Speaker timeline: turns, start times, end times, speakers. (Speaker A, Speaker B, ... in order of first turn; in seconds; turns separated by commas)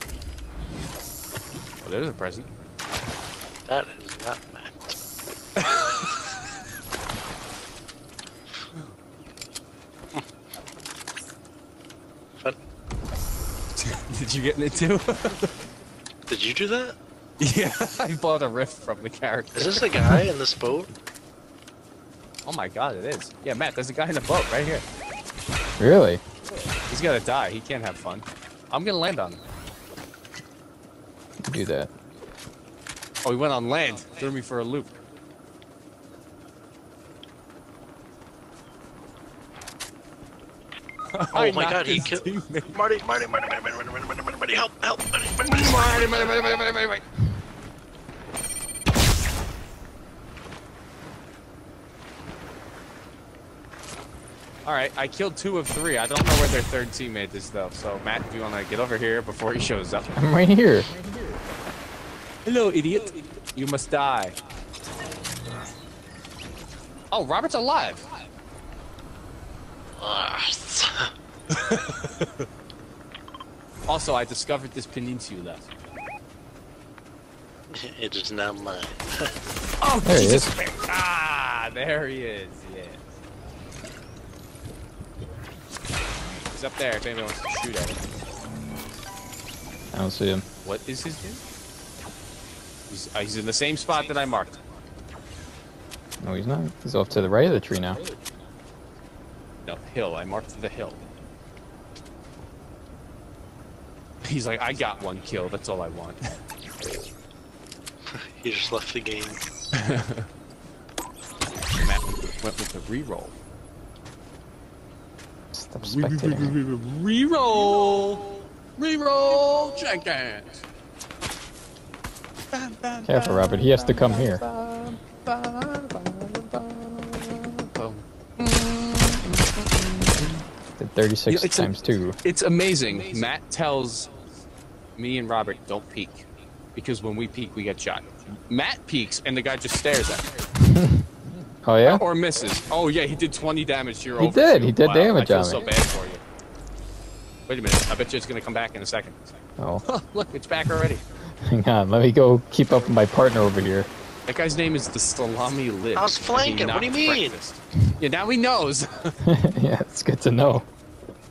Speaker A: 1.8-2.5, Speaker B: 3.7-5.0, Speaker A: 5.6-6.0, Speaker A: 13.8-15.5, Speaker B: 16.3-17.0, Speaker A: 17.4-19.9, Speaker B: 19.6-20.9, Speaker A: 22.4-24.9, Speaker C: 25.8-26.2, Speaker A: 26.9-29.4, Speaker C: 31.4-31.9, Speaker A: 33.2-34.9, Speaker A: 41.1-42.7, Speaker B: 41.3-46.4, Speaker A: 45.5-47.0, Speaker A: 54.6-60.2, Speaker C: 60.1-60.9, Speaker A: 60.9-61.4, Speaker A: 62.5-64.4, Speaker A: 67.1-68.1, Speaker B: 70.0-71.1, Speaker A: 71.5-72.3, Speaker A: 73.9-75.7, Speaker B: 77.7-79.3, Speaker A: 79.8-83.0, Speaker C: 80.0-80.5, Speaker A: 86.5-88.0, Speaker C: 89.9-90.5, Speaker A: 90.6-91.4, Speaker A: 92.9-94.6, Speaker C: 96.2-98.0, Speaker A: 99.7-101.0, Speaker A: 104.2-106.2, Speaker B: 108.1-109.4, Speaker A: 109.7-110.3, Speaker A: 111.7-113.3, Speaker C: 115.5-116.6, Speaker A: 115.8-120.7, Speaker A: 122.5-130.4, Speaker C: 123.0-124.4, Speaker C: 130.8-132.2, Speaker A: 131.3-134.1, Speaker A: 135.0-140.3, Speaker C: 140.6-141.1, Speaker C: 141.7-142.0, Speaker A: 141.8-146.2, Speaker C: 144.2-145.7, Speaker A: 147.5-149.2, Speaker C: 149.6-149.8, Speaker A: 149.8-151.0, Speaker C: 151.4-153.9, Speaker A: 154.3-159.2, Speaker B: 155.9-157.4, Speaker C: 159.2-160.7